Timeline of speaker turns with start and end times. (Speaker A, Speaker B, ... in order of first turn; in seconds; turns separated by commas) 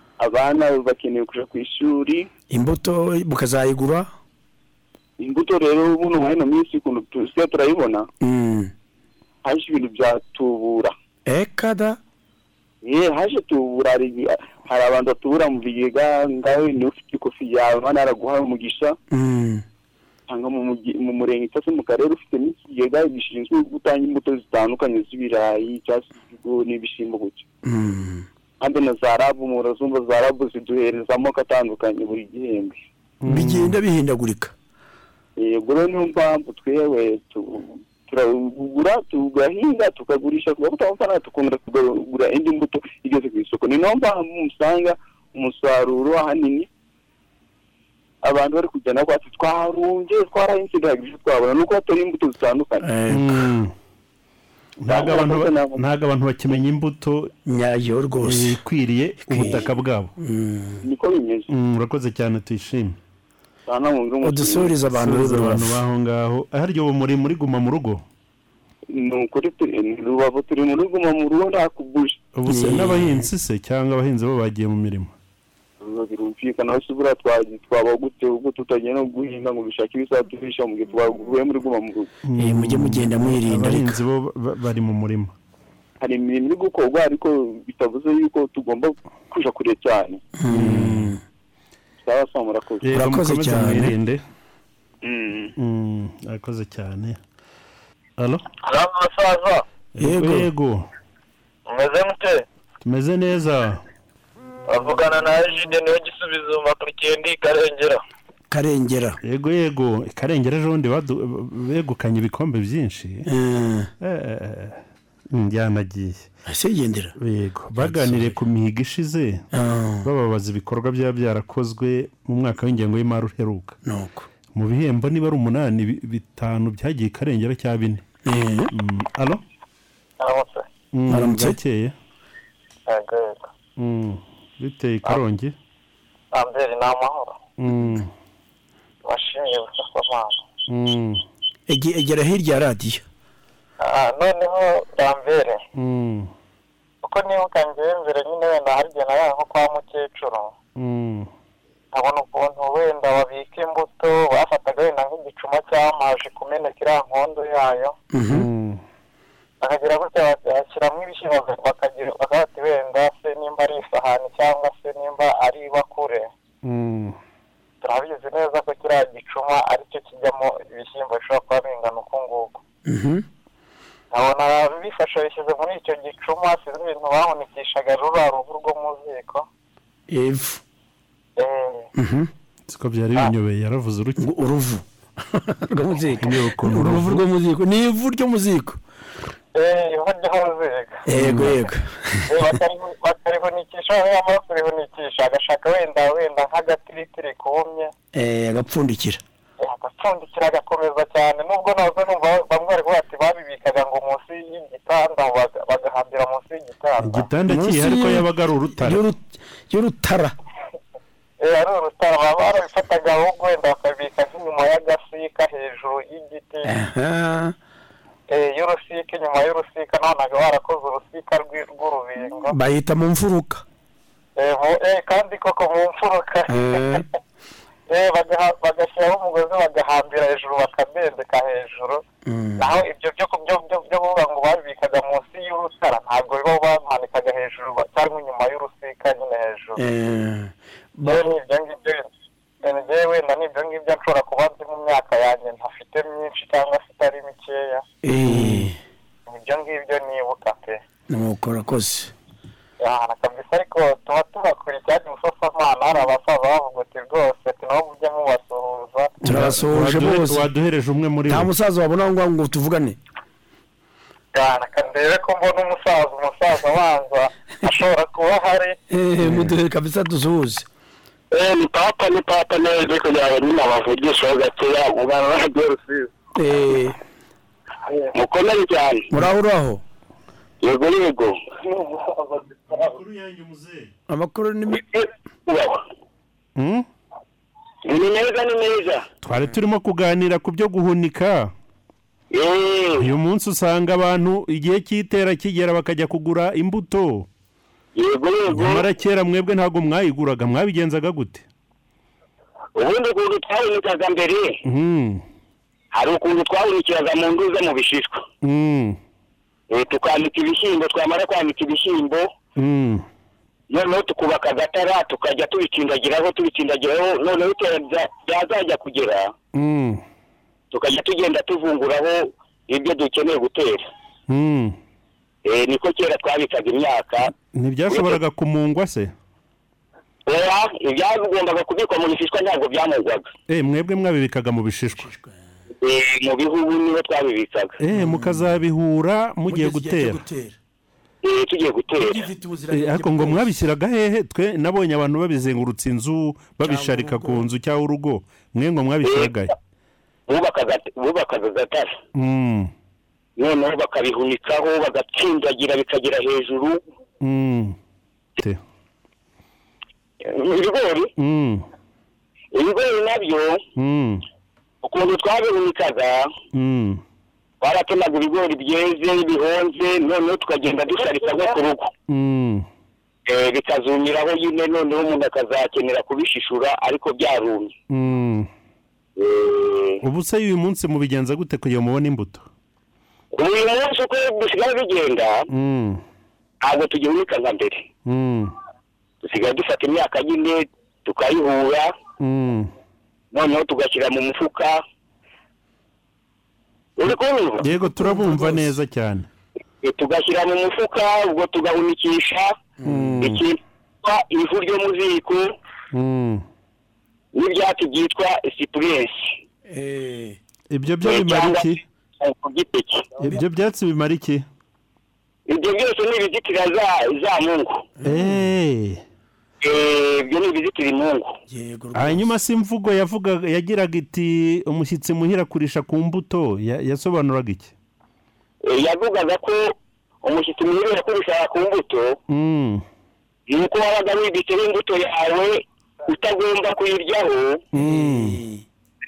Speaker A: 0.2-2.3, Speaker B: 2.5-4.1, Speaker A: 5.2-8.1, Speaker B: 8.2-8.7, Speaker A: 9.4-10.9, Speaker B: 11.3-12.0, Speaker A: 12.8-19.0, Speaker B: 19.1-19.6, Speaker A: 20.3-27.5, Speaker B: 27.6-28.3, Speaker A: 28.6-32.8, Speaker C: 33.2-33.8, Speaker B: 33.3-34.5, Speaker A: 35.4-46.7, Speaker A: 48.2-52.9, Speaker B: 52.8-53.5, Speaker C: 53.1-53.7, Speaker C: 54.8-57.3, Speaker A: 54.9-55.8, Speaker B: 57.5-58.6, Speaker C: 58.2-60.1, Speaker B: 59.3-59.7, Speaker B: 60.2-60.8, Speaker A: 60.8-61.5, Speaker C: 61.5-63.0, Speaker A: 63.7-64.7, Speaker B: 64.2-65.8, Speaker C: 64.9-68.0, Speaker A: 68.9-72.3, Speaker C: 72.3-75.1, Speaker B: 72.5-73.3, Speaker A: 75.8-82.1, Speaker C: 82.3-85.3, Speaker B: 82.4-84.0, Speaker A: 86.0-90.2, Speaker B: 90.4-91.2, Speaker C: 90.5-91.2, Speaker A: 92.0-92.9, Speaker C: 92.8-94.2, Speaker B: 92.9-94.0, Speaker A: 95.0-95.5, Speaker C: 95.6-97.2, Speaker C: 100.0-100.9, Speaker B: 100.0-100.5, Speaker C: 102.8-103.8, Speaker B: 108.5-109.2, Speaker C: 109.2-113.3, Speaker B: 113.3-113.9, Speaker C: 114.0-116.3, Speaker B: 116.5-117.1, Speaker C: 117.2-119.5, Speaker B: 117.8-118.4, Speaker B: 119.5-120.1, Speaker C: 120.0-123.8, Speaker B: 123.8-124.3, Speaker C: 124.5-128.1, Speaker B: 128.2-128.7, Speaker C: 128.7-129.4, Speaker D: 130.2-130.7, Speaker C: 130.9-131.9, Speaker B: 131.1-131.6, Speaker D: 132.9-133.5, Speaker C: 133.8-135.5, Speaker D: 136.3-137.4, Speaker C: 137.6-138.1, Speaker D: 139.0-140.4, Speaker C: 140.7-141.2, Speaker B: 141.7-143.1, Speaker D: 143.8-145.6, Speaker C: 145.8-146.3, Speaker D: 147.0-150.5, Speaker C: 150.8-151.3, Speaker D: 151.9-158.0, Speaker B: 158.1-158.5, Speaker C: 158.3-158.8, Speaker D: 159.6-166.3, Speaker C: 166.6-167.2, Speaker D: 167.8-172.6, Speaker B: 172.8-173.2, Speaker D: 174.1-179.5, Speaker B: 180.1-180.6, Speaker D: 181.4-181.9, Speaker B: 181.9-182.3, Speaker C: 182.7-184.2, Speaker B: 184.2-188.8, Speaker C: 186.2-187.2, Speaker D: 189.6-191.0, Speaker B: 191.1-192.5, Speaker C: 191.1-191.6, Speaker D: 192.3-197.9, Speaker B: 198.1-199.2, Speaker D: 199.6-207.3, Speaker C: 207.0-209.0, Speaker B: 207.5-210.3, Speaker D: 211.4-216.7, Speaker B: 216.7-217.6, Speaker D: 218.3-222.6, Speaker B: 222.4-223.6, Speaker D: 224.4-227.1, Speaker B: 226.5-227.1, Speaker D: 227.9-232.0, Speaker B: 232.2-232.7, Speaker D: 232.6-239.8, Speaker B: 239.8-241.2, Speaker D: 241.0-242.1, Speaker D: 242.6-247.8, Speaker B: 248.0-248.8, Speaker C: 248.3-248.7, Speaker D: 249.3-250.8, Speaker B: 251.1-252.1, Speaker D: 252.8-259.2, Speaker B: 259.2-260.5, Speaker C: 259.2-261.5, Speaker B: 261.3-263.0, Speaker D: 264.4-268.8, Speaker B: 268.9-270.7, Speaker E: 272.4-273.8, Speaker B: 276.4-277.0, Speaker E: 278.1-279.1, Speaker B: 279.1-279.8, Speaker E: 280.6-281.4, Speaker C: 282.7-283.9, Speaker B: 284.1-284.8, Speaker E: 284.7-285.8, Speaker C: 286.6-286.9, Speaker E: 287.9-289.1, Speaker C: 289.2-291.5, Speaker E: 292.3-293.1, Speaker C: 293.0-297.3, Speaker E: 298.0-298.9, Speaker C: 298.5-301.4, Speaker E: 302.8-304.6, Speaker C: 304.6-305.2, Speaker E: 305.9-308.2, Speaker C: 308.4-309.0, Speaker E: 309.7-312.3, Speaker C: 312.6-313.1, Speaker E: 313.7-319.3, Speaker C: 319.5-320.0, Speaker E: 320.7-323.8, Speaker C: 324.3-324.8, Speaker E: 325.5-327.3, Speaker C: 327.5-329.1, Speaker E: 327.9-328.2, Speaker E: 330.3-333.3, Speaker C: 333.5-335.1, Speaker B: 335.0-335.4, Speaker E: 335.8-337.8, Speaker C: 337.8-340.2, Speaker B: 337.9-338.6, Speaker B: 339.5-340.6, Speaker E: 341.2-342.2, Speaker B: 342.0-343.6, Speaker C: 342.7-349.6, Speaker B: 346.6-347.5, Speaker E: 349.0-349.4, Speaker E: 350.3-351.9, Speaker C: 352.1-352.7, Speaker E: 353.4-356.8, Speaker C: 357.2-357.8, Speaker E: 360.2-361.1, Speaker C: 361.2-361.6, Speaker E: 362.5-363.6, Speaker C: 363.8-364.2, Speaker E: 364.8-366.3, Speaker C: 366.5-367.0, Speaker E: 367.6-371.9, Speaker C: 372.1-372.7, Speaker E: 373.3-377.7, Speaker C: 377.9-378.5, Speaker E: 379.2-380.0, Speaker C: 380.0-382.5, Speaker E: 383.3-385.5, Speaker C: 385.5-386.0, Speaker E: 386.6-387.9, Speaker C: 388.1-388.5, Speaker E: 389.2-391.9, Speaker C: 392.2-392.7, Speaker E: 393.3-394.8, Speaker E: 397.0-397.7, Speaker C: 397.6-399.3, Speaker B: 398.0-398.7, Speaker E: 399.8-402.6, Speaker B: 402.8-403.3, Speaker C: 402.8-403.4, Speaker E: 403.2-405.5, Speaker C: 405.9-406.4, Speaker E: 407.3-409.1, Speaker B: 409.7-410.4, Speaker C: 410.7-411.8, Speaker E: 411.0-413.1, Speaker C: 413.2-414.4, Speaker E: 415.5-417.8, Speaker B: 418.0-418.4, Speaker C: 418.0-419.0, Speaker E: 419.6-421.3, Speaker B: 421.5-422.3, Speaker C: 421.9-427.7, Speaker E: 428.7-432.2, Speaker C: 432.3-432.8, Speaker E: 433.5-437.6, Speaker C: 437.7-438.4, Speaker B: 437.7-438.7